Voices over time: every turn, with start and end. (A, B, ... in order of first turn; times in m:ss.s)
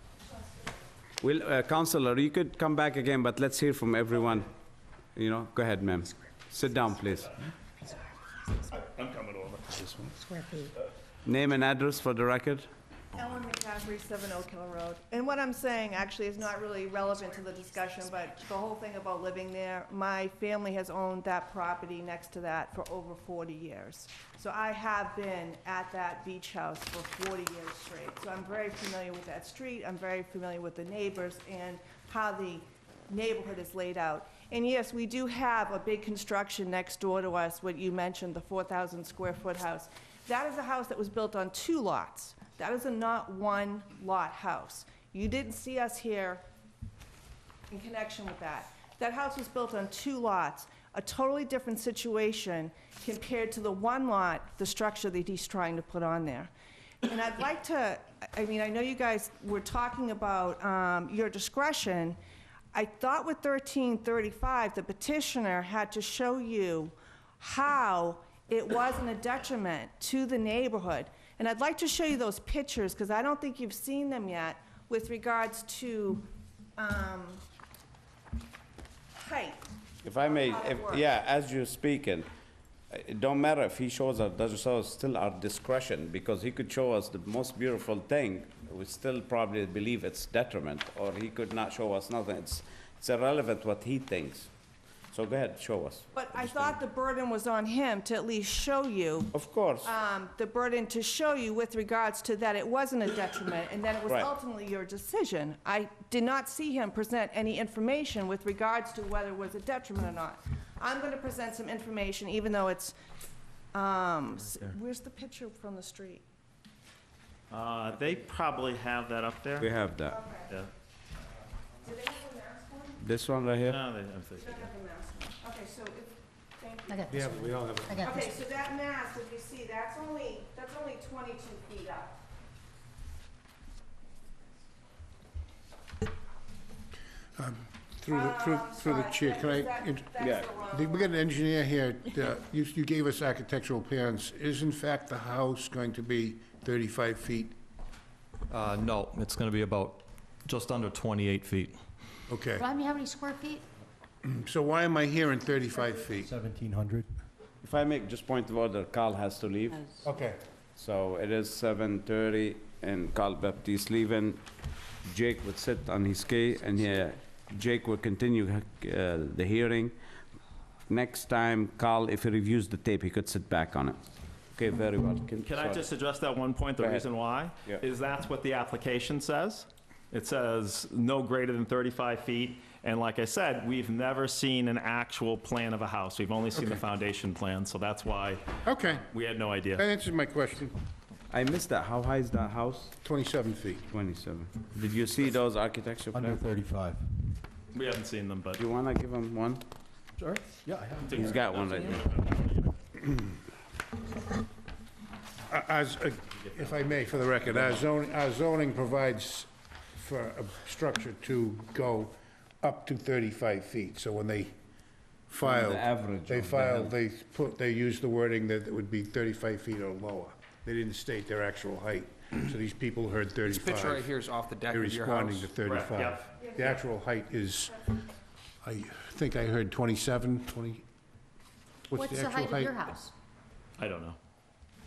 0:01.2-0:04.5 A
0:05.1-0:07.4 A
0:08.7-0:09.9 B
0:10.2-0:10.7 C
0:11.2-0:12.7 A
0:13.1-0:46.4 D
0:47.7-0:56.5 D
0:57.0-1:02.2 D
1:02.7-1:17.4 D
1:19.1-1:21.0 D
1:20.0-1:22.3 A
1:22.9-1:34.5 A
1:35.1-1:36.8 A
1:36.1-1:39.3 D
1:39.3-1:39.9 A
1:39.8-1:52.9 D
1:53.7-1:56.2 D
1:54.4-1:54.7 B
1:57.5-1:59.7 B
1:59.6-2:00.2 A
2:00.1-2:00.5 D
2:01.8-2:03.0 D
2:03.0-2:03.8 A
2:03.6-2:04.7 B
2:04.4-2:07.2 D
2:06.9-2:08.2 C
2:07.1-2:08.0 E
2:08.0-2:12.2 D
2:17.4-2:20.2 E
2:18.1-2:21.2 D
2:20.2-2:20.6 A
2:20.7-2:27.5 E
2:28.5-2:30.0 F
2:30.5-2:31.7 F
2:32.3-2:32.6 E
2:32.6-2:33.6 C
2:34.2-2:36.3 E
2:36.2-2:37.1 G
2:37.6-2:40.0 A
2:40.0-2:40.4 E
2:40.8-2:44.4 A
2:45.0-2:49.9 A
2:50.9-2:55.8 A
2:55.4-3:09.8 B
2:56.8-2:57.0 A
3:06.5-3:06.8 E
3:08.6-3:09.0 E
3:09.8-3:10.8 E
3:11.3-3:13.0 A
3:13.0-3:13.8 E
3:13.8-3:16.4 A
3:16.1-3:17.1 G
3:17.7-3:18.6 B
3:18.6-3:19.6 A
3:20.2-3:21.3 G
3:21.0-3:22.7 B
3:21.1-3:22.0 A
3:25.5-3:34.5 E
3:35.3-3:44.0 E
3:35.4-3:36.9 A
3:43.4-3:45.6 H
3:44.7-3:47.8 E
3:45.6-3:46.6 B
3:46.4-3:46.7 D
3:48.6-3:50.8 E
3:51.9-3:52.7 E
3:51.9-3:53.1 C
3:53.8-3:54.2 B